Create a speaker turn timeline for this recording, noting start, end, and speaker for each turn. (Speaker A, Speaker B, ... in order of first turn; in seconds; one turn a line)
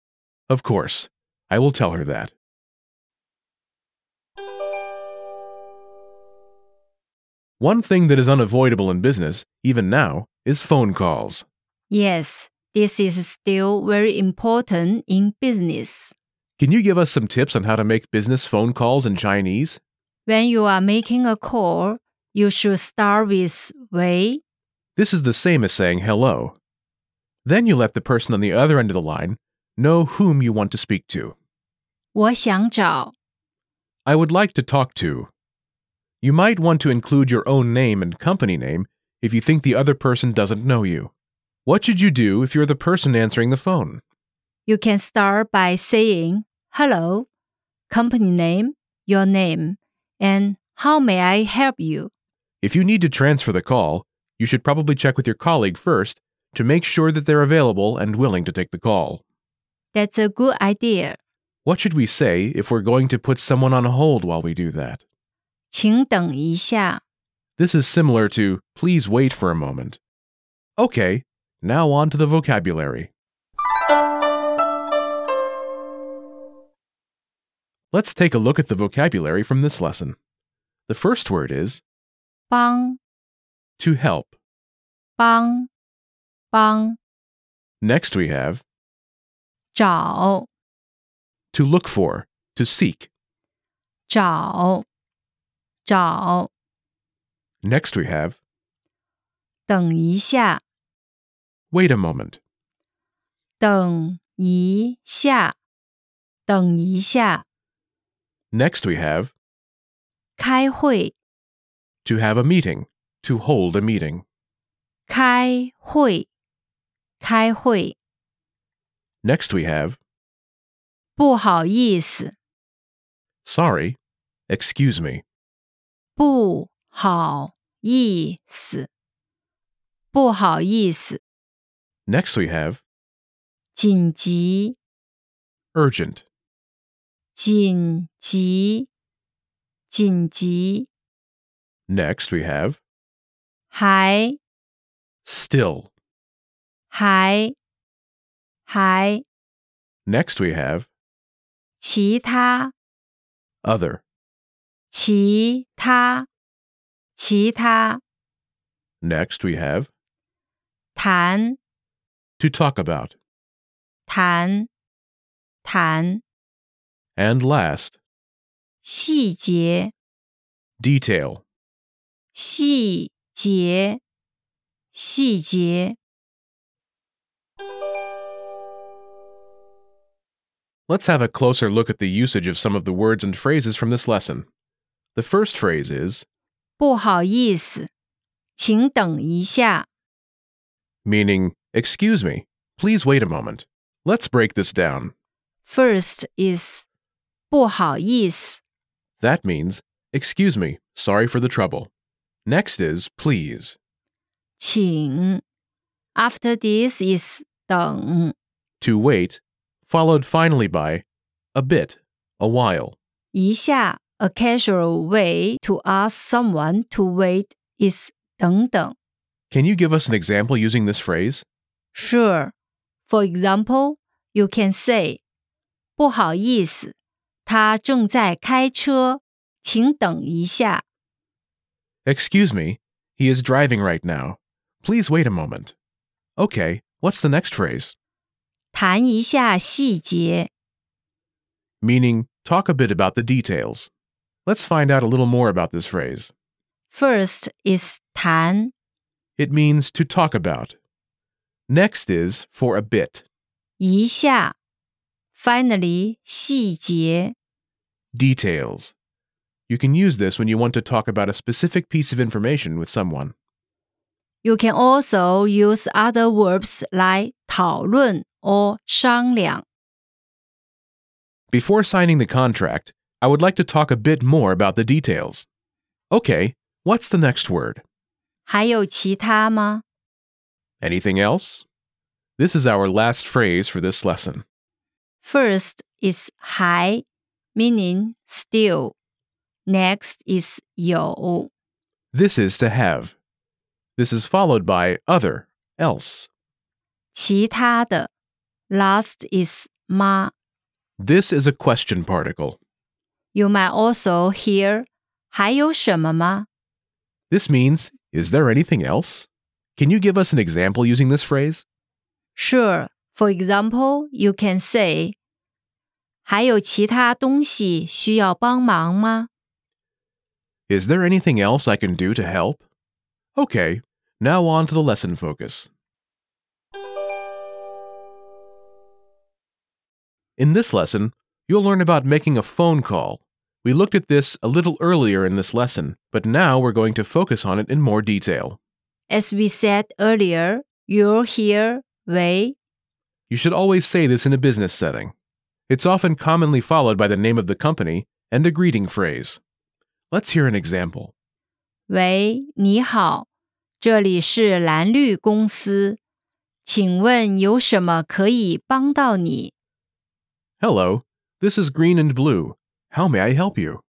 Speaker A: 0.5-2.3
Speaker A: 7.6-11.4
Speaker B: 11.9-16.1
Speaker A: 16.6-19.8
Speaker B: 20.3-24.4
Speaker A: 25.0-26.6
Speaker A: 27.4-31.4
Speaker B: 32.1-33.1
Speaker A: 34.1-35.3
Speaker A: 36.2-41.1
Speaker A: 41.7-44.0
Speaker B: 44.7-47.3
Speaker B: 47.9-52.1
Speaker A: 52.6-59.2
Speaker B: 59.9-61.2
Speaker A: 61.6-65.0
Speaker B: 65.7-67.0
Speaker A: 67.6-70.0
Speaker A: 70.8-73.1
Speaker A: 77.9-80.2
Speaker A: 80.9-81.8
Speaker B: 82.5-83.0
Speaker A: 83.8-84.3
Speaker B: 85.2-85.7
Speaker B: 86.5-87.0
Speaker A: 87.8-88.6
Speaker B: 89.7-90.5
Speaker A: 91.5-93.1
Speaker B: 94.1-94.8
Speaker B: 95.8-96.5
Speaker A: 97.6-98.4
Speaker B: 99.7-100.6
Speaker A: 101.7-102.4
Speaker B: 103.6-105.6
Speaker B: 106.5-107.5
Speaker A: 108.5-109.3
Speaker B: 110.4-111.2
Speaker A: 112.0-114.2
Speaker B: 115.1-116.3
Speaker B: 117.2-118.0
Speaker A: 119.2-120.0
Speaker B: 121.2-122.4
Speaker A: 123.5-124.0
Speaker A: 124.5-125.2
Speaker B: 126.2-128.9
Speaker B: 130.1-131.2
Speaker A: 132.1-132.8
Speaker B: 133.8-134.8
Speaker A: 135.8-136.2
Speaker B: 137.3-138.9
Speaker B: 139.9-140.9
Speaker A: 141.9-142.8
Speaker B: 143.7-144.4
Speaker A: 145.2-145.9
Speaker B: 146.9-147.6
Speaker B: 148.7-149.2
Speaker A: 150.1-150.9
Speaker B: 151.8-152.7
Speaker A: 153.6-154.0
Speaker B: 154.9-156.3
Speaker B: 157.2-158.0
Speaker A: 159.0-159.9
Speaker B: 160.9-161.6
Speaker A: 162.4-163.2
Speaker B: 164.1-164.7
Speaker B: 165.6-166.2
Speaker A: 167.2-168.0
Speaker B: 168.8-169.9
Speaker A: 170.8-171.4
Speaker B: 172.3-174.0
Speaker B: 174.9-176.0
Speaker A: 180.9-184.5
Speaker A: 185.2-186.2
Speaker B: 186.8-187.9
Speaker B: 188.6-189.9
Speaker A: 191.1-195.1
Speaker B: 195.7-196.8
Speaker B: 197.5-198.6
Speaker A: 199.2-201.9
Speaker A: 202.5-203.8
Speaker B: 204.6-205.4
Speaker B: 206.2-208.3
Speaker A: 208.8-213.0
Speaker B: 213.3-219.0
Speaker A: 219.5-221.4
Speaker B: 221.9-222.5
Speaker B: 223.1-225.2
Speaker B: 226.0-226.9
Speaker B: 227.5-230.8
Speaker A: 232.1-235.7
Speaker A: 236.4-237.9
Speaker B: 238.7-240.5
Speaker A: 241.8-243.9
Speaker A: 244.5-246.3
Speaker B: 246.9-248.7
Speaker A: 249.4-250.8
Speaker A: 251.7-253.2
Speaker B: 253.8-254.5
Speaker B: 255.3-257.4
Speaker A: 258.1-258.9
Speaker A: 259.7-263.3
Speaker B: 264.4-269.6
Speaker A: 271.5-275.5
Speaker A: 276.1-277.8
Speaker B: 278.5-279.8
Speaker A: 280.8-281.7
Speaker A: 282.4-284.4
Speaker B: 285.2-288.9
Speaker B: 289.7-291.5
Speaker A: 292.1-293.1
Speaker A: 294.0-296.3
Speaker B: 297.1-298.1
Speaker B: 298.7-300.3
Speaker A: 301.0-302.6
Speaker B: 303.3-306.5
Speaker A: 307.3-311.6
Speaker B: 312.4-315.2
Speaker B: 316.2-319.3
Speaker A: 320.7-322.6
Speaker A: 323.4-325.7
Speaker A: 330.4-338.6
Speaker B: 339.1-342.6
Speaker A: 343.3-345.1
Speaker A: 345.7-349.4
Speaker A: 350.1-351.1
Speaker B: 351.9-353.3
Speaker B: 353.8-356.0
Speaker B: 356.6-359.5
Speaker A: 360.6-363.8